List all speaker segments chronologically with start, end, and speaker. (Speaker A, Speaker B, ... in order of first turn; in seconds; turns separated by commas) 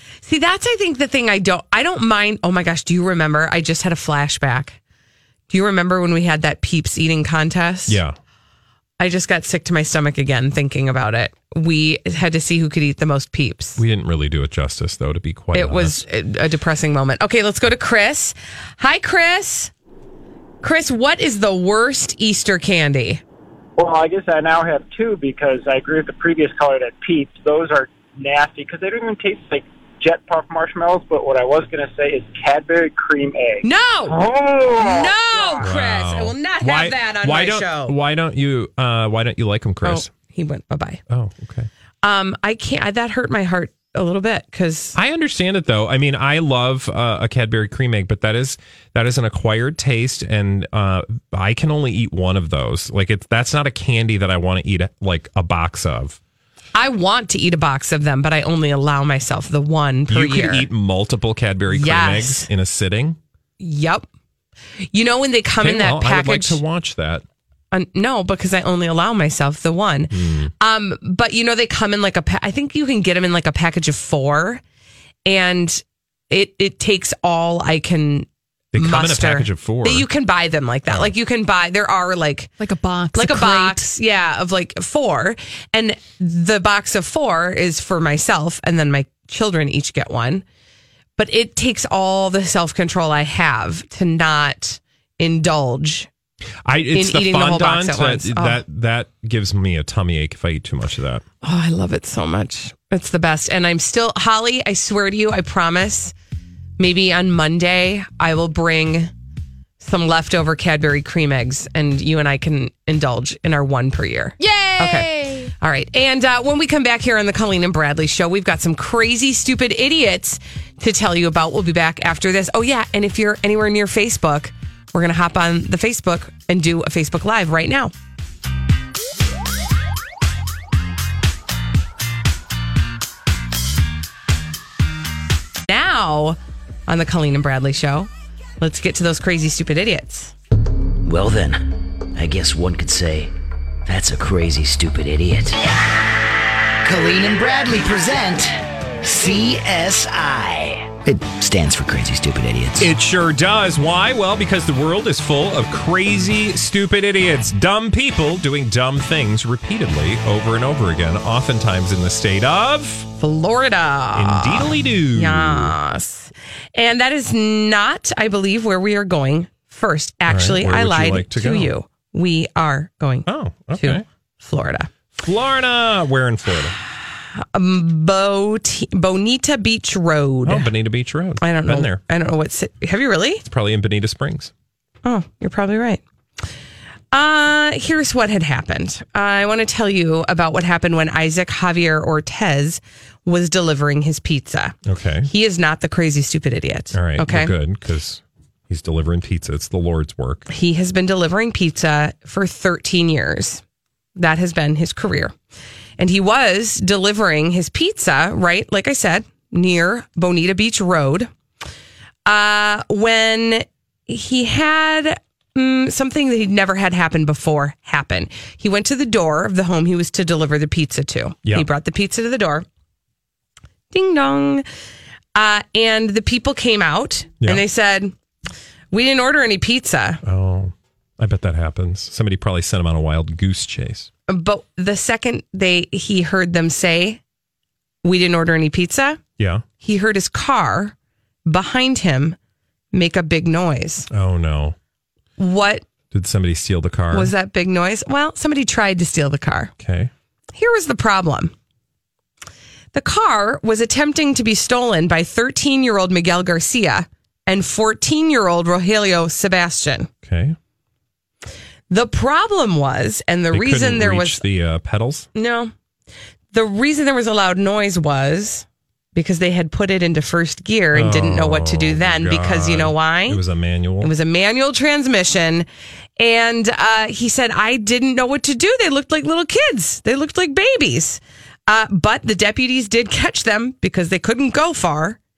Speaker A: 0.2-4.8, Speaker A: 5.5-8.0, Speaker B: 7.9-8.2, Speaker A: 9.0-13.8, Speaker B: 13.8-16.1, Speaker A: 15.5-19.7, Speaker A: 20.6-23.2, Speaker C: 23.8-35.6, Speaker A: 33.6-38.0, Speaker B: 35.6-40.1, Speaker A: 39.8-41.0, Speaker B: 41.1-41.7, Speaker A: 42.0-45.0, Speaker B: 45.0-56.2, Speaker A: 56.8-60.7, Speaker B: 60.1-63.2, Speaker A: 61.7-62.5, Speaker A: 63.6-64.1, Speaker A: 64.9-66.6, Speaker B: 65.6-67.2, Speaker A: 67.7-74.6, Speaker B: 70.1-70.5, Speaker A: 75.3-78.3, Speaker B: 78.7-80.1, Speaker A: 78.8-82.5, Speaker B: 80.9-81.1, Speaker D: 82.6-83.9, Speaker A: 83.1-90.5, Speaker A: 91.2-96.1, Speaker B: 96.7-101.2, Speaker A: 96.9-98.6, Speaker A: 101.4-106.1, Speaker A: 106.8-109.1, Speaker A: 109.8-127.9, Speaker D: 114.4-115.5, Speaker A: 135.7-138.1, Speaker A: 138.6-140.3, Speaker E: 141.0-143.3, Speaker E: 143.9-145.6, Speaker E: 146.8-152.9, Speaker B: 152.8-163.1, Speaker A: 163.2-173.3, Speaker B: 164.2-165.8, Speaker B: 170.3-171.7, Speaker B: 173.3-174.1, Speaker A: 173.8-174.9, Speaker B: 175.1-176.8, Speaker A: 177.4-180.7, Speaker B: 180.4-182.0, Speaker A: 181.4-183.4, Speaker B: 183.4-184.5, Speaker A: 185.1-186.0, Speaker A: 187.1-194.8, Speaker B: 194.8-195.3, Speaker A: 195.3-197.5, Speaker B: 196.9-200.5, Speaker A: 200.5-203.6, Speaker A: 204.2-205.3, Speaker A: 206.0-211.3, Speaker A: 212.3-222.7, Speaker A: 223.9-224.6, Speaker A: 225.4-228.1, Speaker A: 228.9-230.2, Speaker B: 230.2-234.1, Speaker A: 234.3-237.2, Speaker A: 238.0-239.2, Speaker B: 239.4-239.7, Speaker A: 239.8-240.9, Speaker A: 241.5-242.4, Speaker A: 242.9-244.1, Speaker B: 244.1-244.8, Speaker A: 245.4-245.8, Speaker B: 246.1-247.3, Speaker A: 247.1-249.7, Speaker B: 249.8-250.1, Speaker A: 250.6-251.5, Speaker A: 252.9-260.1, Speaker B: 260.2-260.6, Speaker A: 261.9-264.4, Speaker B: 263.5-265.3, Speaker A: 265.4-265.7, Speaker A: 266.5-273.4, Speaker B: 270.9-274.1, Speaker A: 274.0-275.7, Speaker A: 276.2-285.2